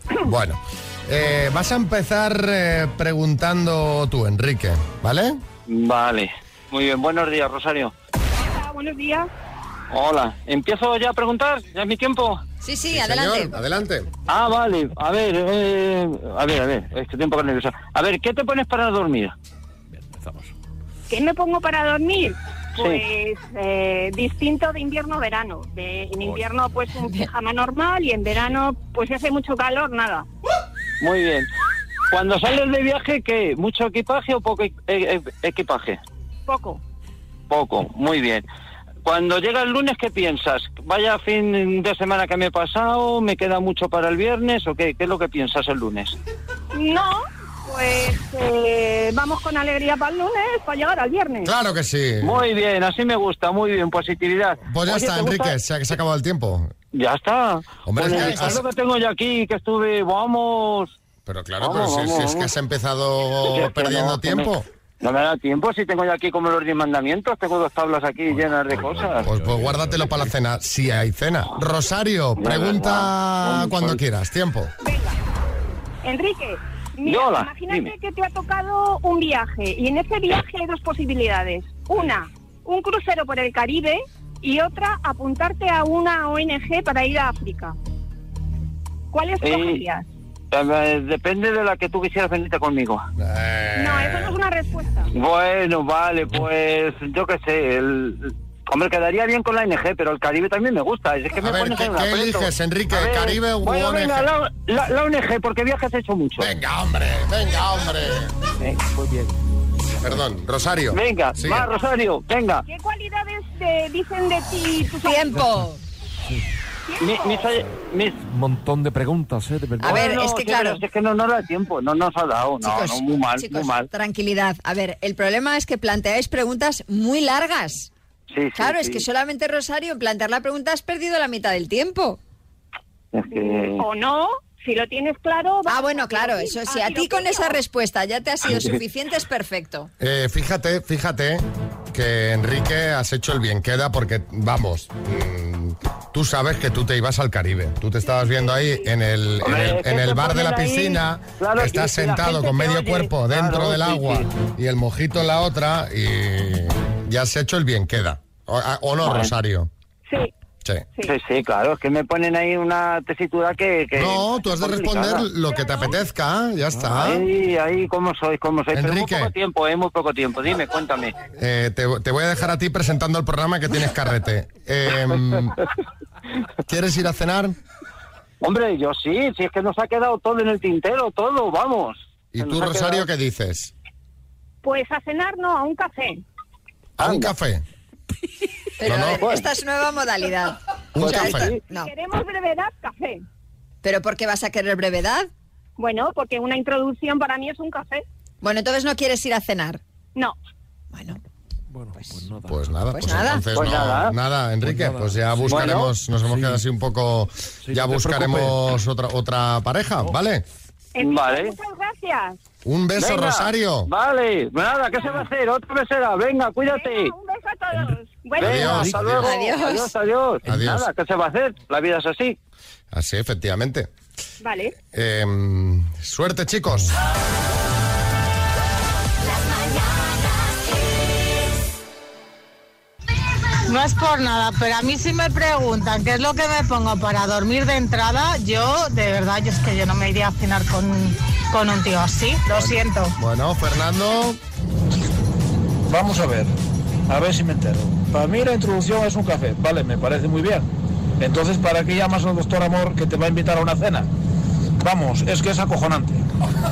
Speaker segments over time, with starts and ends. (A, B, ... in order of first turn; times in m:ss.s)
0:00.3-0:05.4 A
0:05.7-0:07.9 B
0:08.4-0:09.3 C
0:09.9-0:12.4 B
0:12.6-0:13.6 D
0:12.9-0:14.1 A
0:14.3-0:19.4 B
0:21.1-0:30.3 C
0:31.0-0:31.5 B
0:32.1-0:36.0 B
0:36.5-0:36.8 C
0:37.5-0:38.4 B
0:39.0-0:46.2 B
0:46.7-0:51.5 C
0:51.4-0:52.5 A
0:52.2-0:55.5 B
0:54.7-0:56.7 A
0:56.9-1:01.0 B
0:57.9-0:58.7 A
0:58.2-0:58.5 D
1:01.3-1:04.7 A
1:01.6-1:02.5 B
1:03.5-1:04.5 B
1:05.0-1:09.3 B
1:08.7-1:09.9 E
1:09.2-1:14.7 A
1:12.4-1:14.0 B
1:14.8-1:15.2 C
1:16.0-1:27.8 C
1:17.0-1:17.9 B
1:29.1-1:30.1 C
1:29.4-1:29.8 B
1:30.5-1:33.0 B
1:33.2-1:34.4 A
1:33.8-1:35.1 C
1:35.2-1:46.5 B
1:41.4-1:44.3 A
1:46.4-1:48.3 A
1:48.6-1:48.9 B
1:50.0-1:51.7 A
1:50.9-1:52.6 B
1:52.6-1:55.4 C
1:55.0-1:55.8 D
1:56.9-1:57.6 C
1:57.0-1:58.2 B
1:58.4-1:59.6 E
1:59.8-2:00.8 D
1:59.8-2:03.9 B
2:02.6-2:07.9 D
2:08.3-2:09.0 B
2:08.6-2:12.2 D
2:13.1-2:13.8 B
2:13.3-2:17.6 C
2:15.7-2:19.9 D
2:20.0-2:39.7 A
2:29.4-2:34.3 B
2:39.0-2:39.3 B
2:41.0-2:45.2 B
2:44.0-2:47.3 A
2:46.9-2:51.2 B
2:48.7-2:49.3 A
2:51.4-2:55.6 A
2:56.7-2:57.6 A
2:58.4-3:03.1 B
3:02.3-3:03.7 A
3:04.6-3:06.2 C
3:07.0-3:07.6 A
3:07.0-3:07.3 B
3:08.8-3:11.9 D
3:08.8-3:09.3 A
3:09.2-3:09.5 B
3:11.0-3:11.5 A
3:11.0-3:11.6 B
3:11.7-3:13.2 C
3:13.8-3:15.3 D
3:15.8-3:18.0 C
3:18.4-3:19.8 D
3:20.9-3:21.2 D
3:22.0-3:22.3 D
3:22.4-3:30.4 A
3:22.9-3:23.5 D
3:23.5-3:24.2 B
3:24.7-3:25.6 E
3:25.5-3:25.9 B
3:27.7-3:28.5 E
3:31.0-3:32.4 C
3:31.0-3:31.5 B
3:32.6-3:33.9 A
3:33.0-3:37.1 B
3:36.7-3:38.9 C
3:38.4-3:39.3 A
3:38.4-3:42.4 B
3:39.2-3:39.9 D
3:40.4-3:40.9 A
3:42.9-3:43.9 A
3:44.4-3:44.8 C
3:44.9-3:46.9 A
3:53.7-4:03.2 F
4:02.5-4:04.4 A
4:05.9-4:06.5 G
4:07.1-4:10.7 G
4:11.2-4:14.1 G
4:14.8-4:16.2 G